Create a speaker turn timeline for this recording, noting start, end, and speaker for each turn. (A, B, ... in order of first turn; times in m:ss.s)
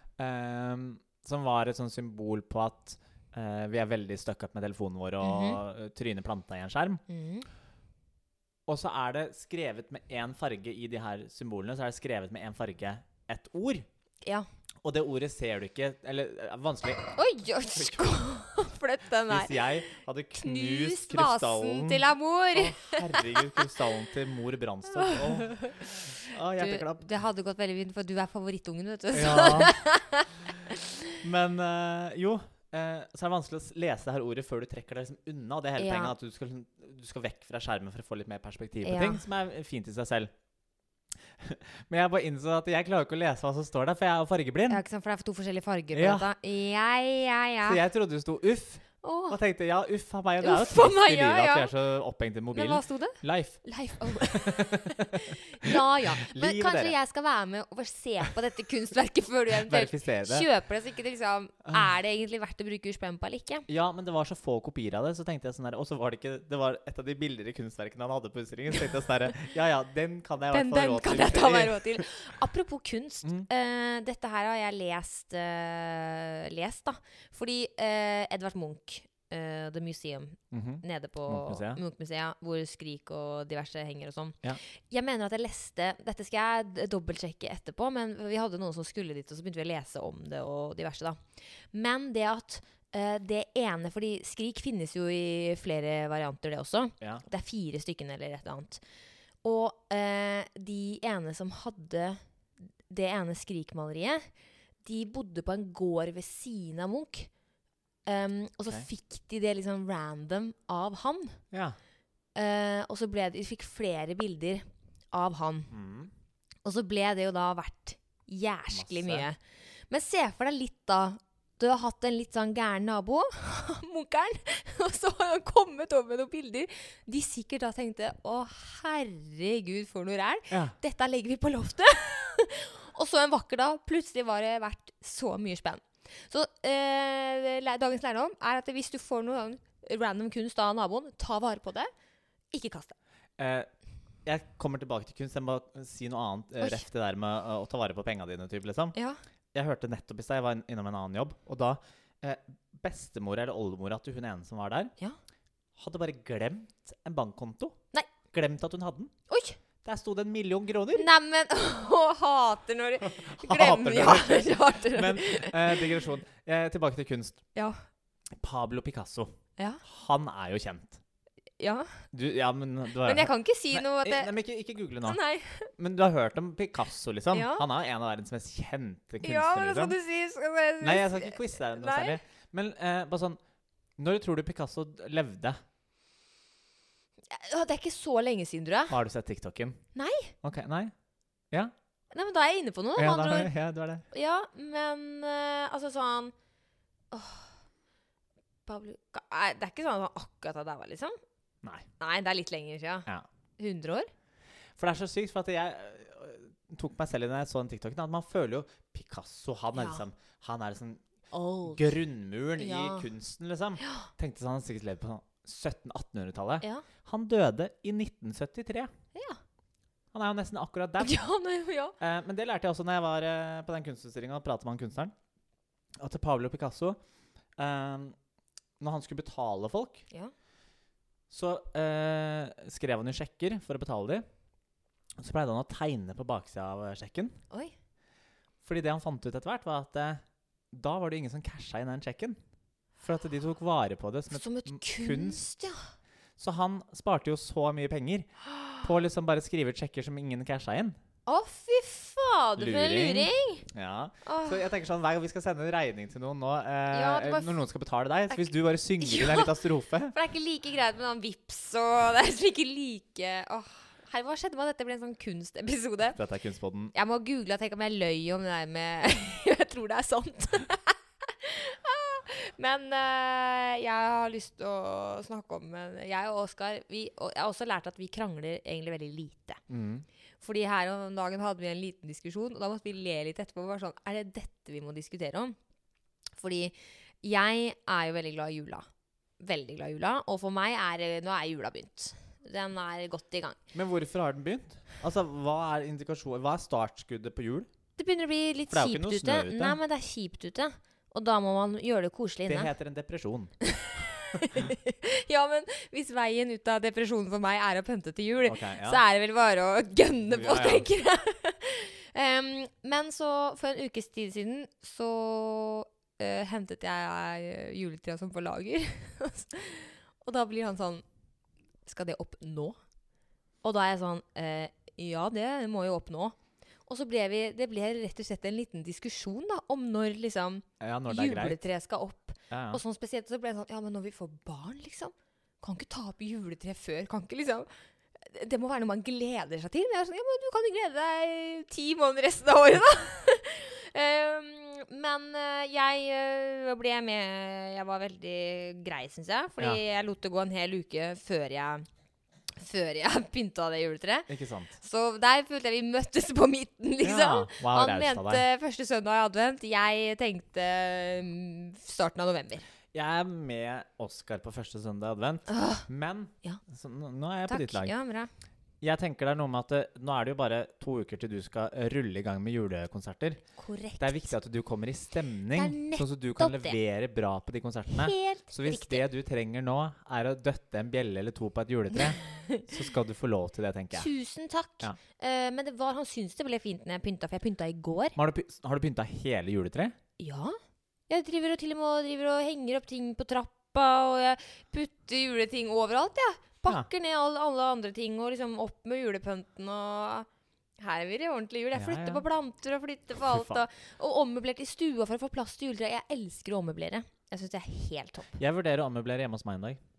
0:00.2-0:07.0 A
0:05.2-0:05.6 B
0:07.1-0:07.5 B
0:08.7-0:13.9 A
0:14.8-0:18.4 A
0:17.2-0:19.6 B
0:19.3-0:27.0 A
0:20.4-0:23.5 B
0:24.9-0:31.2 B
0:29.1-0:29.8 A
0:31.2-0:40.3 A
0:35.8-0:36.1 B
0:38.8-0:39.2 B
0:41.4-0:44.8 A
0:44.7-0:47.8 B
0:45.9-0:46.3 A
0:47.6-0:57.0 A
0:49.0-0:49.4 B
0:50.4-0:51.7 B
0:52.5-1:03.7 B
0:59.6-1:00.5 A
1:03.7-1:12.0 A
1:10.5-1:31.2 B
1:20.5-1:21.8 A
1:31.7-1:38.8 B
1:39.4-1:42.2 B
1:42.9-1:44.3 B
1:44.8-1:47.3 B
1:48.1-1:51.4 B
1:51.5-1:51.8 A
1:52.4-1:55.7 B
1:55.7-1:56.1 A
1:56.6-2:21.9 B
1:58.7-1:59.3 A
2:10.5-2:10.8 A
2:22.5-2:23.0 B
2:23.4-2:23.7 A
2:24.2-2:29.0 A
2:26.6-2:26.8 B
2:29.0-2:29.2 B
2:29.5-2:34.9 A
2:35.8-2:37.8 A
2:38.3-2:39.1 A
2:39.3-2:39.6 B
2:39.8-2:41.1 A
2:40.9-2:46.0 B
2:43.0-2:47.4 A
2:48.4-2:49.3 A
2:49.6-2:49.8 B
2:49.8-2:51.0 A
2:51.6-2:52.0 B
2:52.1-2:55.2 A
2:53.0-2:54.3 B
2:55.0-2:55.7 B
2:55.7-3:00.0 A
2:57.3-2:57.7 B
2:59.2-3:02.2 B
3:00.8-3:03.4 A
3:04.0-3:05.6 A
3:07.3-3:09.0 B
3:08.9-3:09.8 A
3:10.0-3:10.4 B
3:10.4-3:10.9 A
3:12.1-3:13.5 B
3:13.0-3:14.0 A
3:14.1-3:16.3 B
3:17.1-3:17.5 B
3:18.7-3:21.2 B
3:22.0-3:24.1 B
3:24.8-3:31.0 A
3:29.8-3:30.0 B
3:31.3-3:32.0 B
3:31.6-3:38.9 A
3:32.6-3:33.1 B
3:33.8-3:34.1 B
3:39.2-3:39.4 B
3:40.1-3:41.2 A
3:41.0-3:42.0 B
3:42.0-3:45.1 A
3:46.0-3:47.0 A
3:47.6-3:48.2 A
3:48.8-3:50.0 A
3:51.3-3:54.2 A
3:55.2-3:57.4 A
3:58.6-4:02.4 A
4:03.0-4:05.4 A
4:04.3-4:05.9 B
4:06.4-4:08.3 A
4:08.5-4:08.8 B
4:08.8-4:11.0 A
4:11.3-4:13.7 B
4:12.6-4:20.2 A
4:14.2-4:14.7 B
4:16.9-4:17.5 B
4:18.3-4:26.2 B
4:26.2-4:26.9 A
4:26.9-4:39.6 B
4:39.7-4:40.1 A
4:40.4-4:45.6 B
4:46.4-4:48.9 B
4:49.4-4:53.6 B
4:53.7-4:57.7 A
4:58.0-5:02.7 B
4:58.7-4:59.8 A
5:02.5-5:03.5 A
5:03.6-5:21.0 B
5:08.4-5:09.0 A
5:10.3-5:10.9 A
5:21.8-5:22.8 B
5:23.6-5:37.7 B
5:30.8-5:31.6 A
5:32.5-5:32.8 A
5:38.2-5:51.9 B
5:52.6-6:02.6 B
5:54.3-5:54.7 A
5:57.0-5:58.4 A
6:02.9-6:07.9 A
6:05.5-6:05.9 B
6:07.5-6:08.3 B
6:08.8-6:13.4 A
6:13.6-6:14.3 B
6:14.0-6:24.1 A
6:15.5-6:16.8 B
6:17.9-6:19.0 B
6:22.2-6:22.7 B
6:23.9-6:28.2 B
6:28.2-6:29.9 A
6:30.2-6:30.6 B
6:31.1-6:40.3 B
6:40.8-6:48.4 B
6:41.7-6:42.2 A
6:43.2-6:43.6 A
6:48.4-6:49.8 A